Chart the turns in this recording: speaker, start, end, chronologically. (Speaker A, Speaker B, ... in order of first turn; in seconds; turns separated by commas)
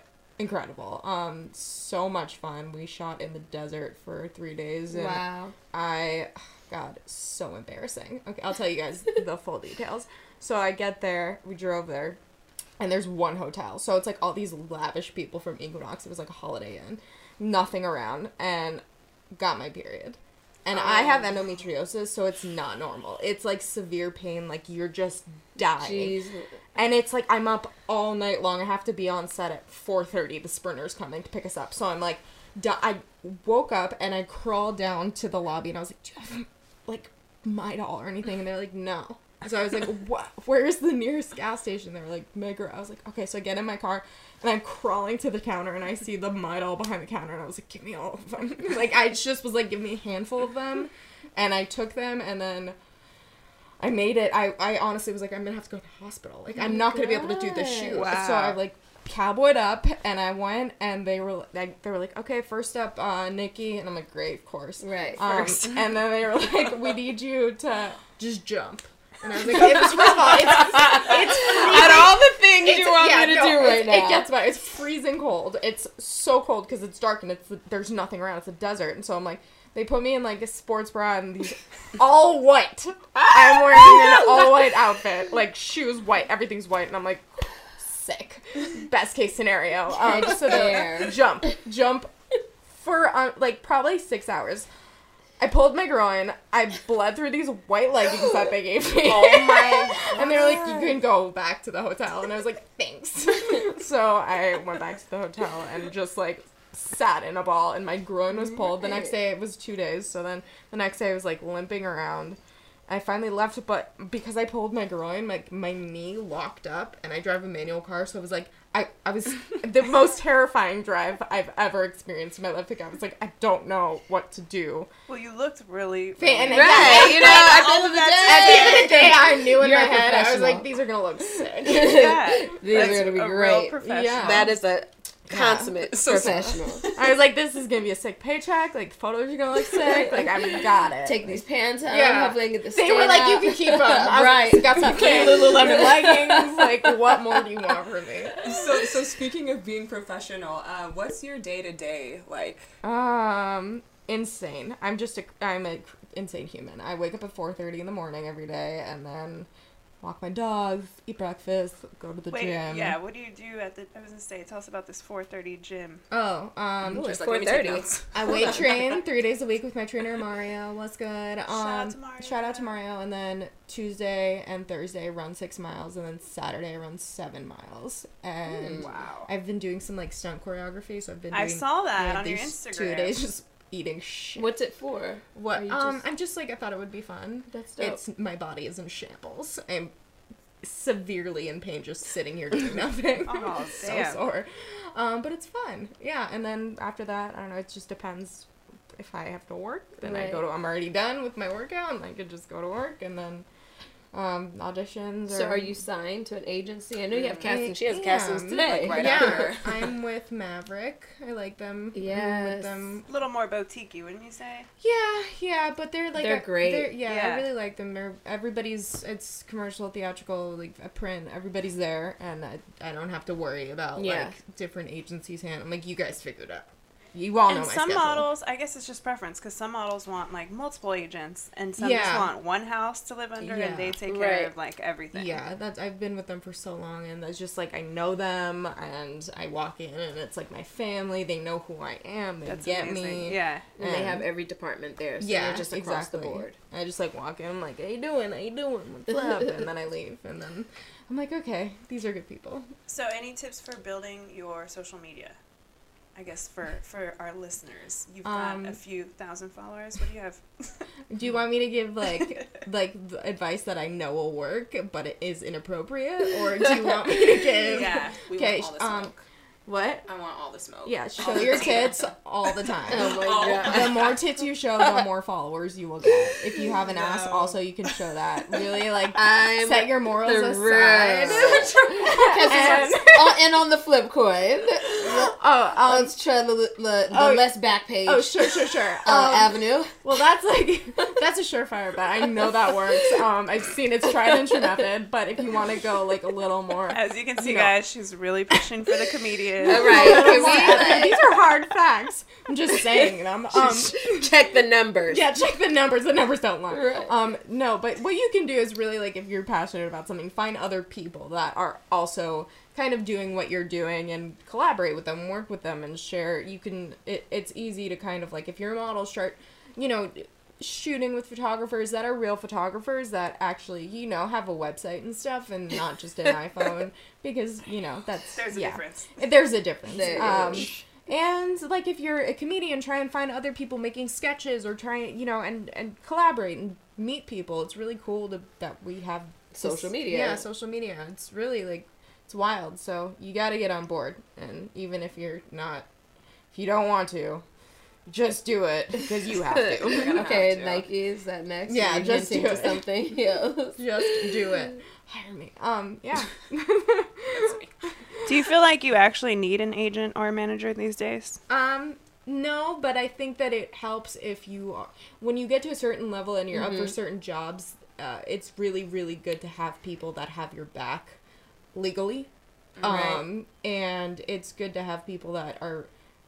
Speaker A: 0.4-12.2, Speaker B: 4.9-5.5, Speaker A: 12.8-18.8, Speaker A: 19.4-26.2, Speaker B: 20.7-21.3, Speaker B: 25.8-26.5, Speaker A: 26.8-52.8, Speaker A: 53.8-92.1, Speaker B: 56.5-58.1, Speaker C: 57.9-58.6, Speaker B: 64.8-65.2, Speaker B: 70.5-74.3, Speaker B: 90.0-91.2, Speaker A: 92.7-94.7, Speaker A: 95.4-124.9, Speaker D: 99.0-100.8, Speaker B: 100.2-100.9, Speaker B: 108.4-109.1, Speaker C: 125.1-129.0, Speaker A: 126.2-127.6, Speaker B: 126.5-130.7, Speaker A: 128.2-132.0, Speaker B: 131.6-136.9, Speaker C: 131.8-134.5, Speaker A: 132.6-133.1, Speaker A: 133.8-134.6, Speaker A: 135.3-148.5, Speaker D: 135.9-136.8, Speaker B: 141.0-147.3, Speaker D: 148.4-152.7, Speaker A: 152.8-159.5, Speaker A: 160.0-163.0, Speaker C: 162.3-166.0, Speaker A: 166.1-167.1, Speaker D: 166.8-168.9, Speaker B: 166.9-168.6, Speaker A: 168.1-184.6, Speaker C: 171.5-172.7, Speaker B: 178.5-178.9, Speaker D: 178.8-179.3, Speaker C: 181.3-183.2, Speaker B: 184.4-186.0, Speaker A: 185.3-189.9, Speaker B: 187.5-188.0, Speaker A: 190.6-203.4, Speaker C: 193.2-194.2, Speaker B: 200.0-200.4, Speaker A: 204.1-205.8, Speaker B: 205.3-209.5, Speaker D: 207.1-207.5, Speaker A: 207.4-213.1, Speaker D: 208.6-209.9, Speaker B: 211.9-212.9, Speaker C: 213.1-214.7, Speaker A: 214.8-228.3, Speaker B: 216.1-217.0, Speaker C: 217.1-217.5, Speaker B: 223.9-224.4, Speaker C: 227.5-235.4, Speaker A: 231.8-232.3, Speaker A: 233.4-234.0, Speaker B: 234.1-234.5, Speaker A: 235.1-244.3, Speaker C: 242.4-243.7, Speaker B: 243.8-246.6, Speaker A: 245.2-252.7, Speaker B: 249.1-249.6, Speaker C: 252.9-255.4, Speaker C: 256.1-260.9, Speaker A: 258.2-258.8, Speaker A: 261.1-269.1, Speaker C: 262.1-262.4, Speaker C: 267.7-268.2, Speaker D: 268.2-269.2, Speaker A: 269.6-270.1, Speaker D: 270.1-272.0, Speaker A: 270.8-283.5, Speaker C: 271.2-272.0, Speaker B: 272.9-274.0, Speaker D: 273.0-274.2, Speaker C: 276.7-277.6, Speaker B: 279.1-290.0, Speaker D: 281.5-281.9, Speaker A: 285.0-286.2, Speaker A: 287.1-287.5, Speaker A: 288.0-297.8, Speaker B: 294.2-294.6, Speaker C: 296.9-300.7, Speaker A: 299.6-304.4, Speaker B: 299.6-301.2, Speaker B: 303.0-305.3, Speaker A: 305.1-345.9, Speaker B: 306.7-307.1, Speaker C: 328.3-329.2, Speaker B: 329.9-330.7, Speaker B: 339.5-340.5, Speaker A: 346.5-347.4, Speaker A: 348.1-350.4, Speaker B: 349.5-354.6, Speaker D: 349.8-350.9, Speaker A: 351.7-352.8, Speaker A: 353.8-357.6, Speaker D: 357.3-357.7, Speaker C: 358.2-361.4, Speaker A: 361.5-371.2, Speaker B: 366.5-366.9, Speaker A: 371.7-372.3, Speaker D: 372.8-373.1, Speaker A: 372.8-375.9, Speaker B: 372.8-373.2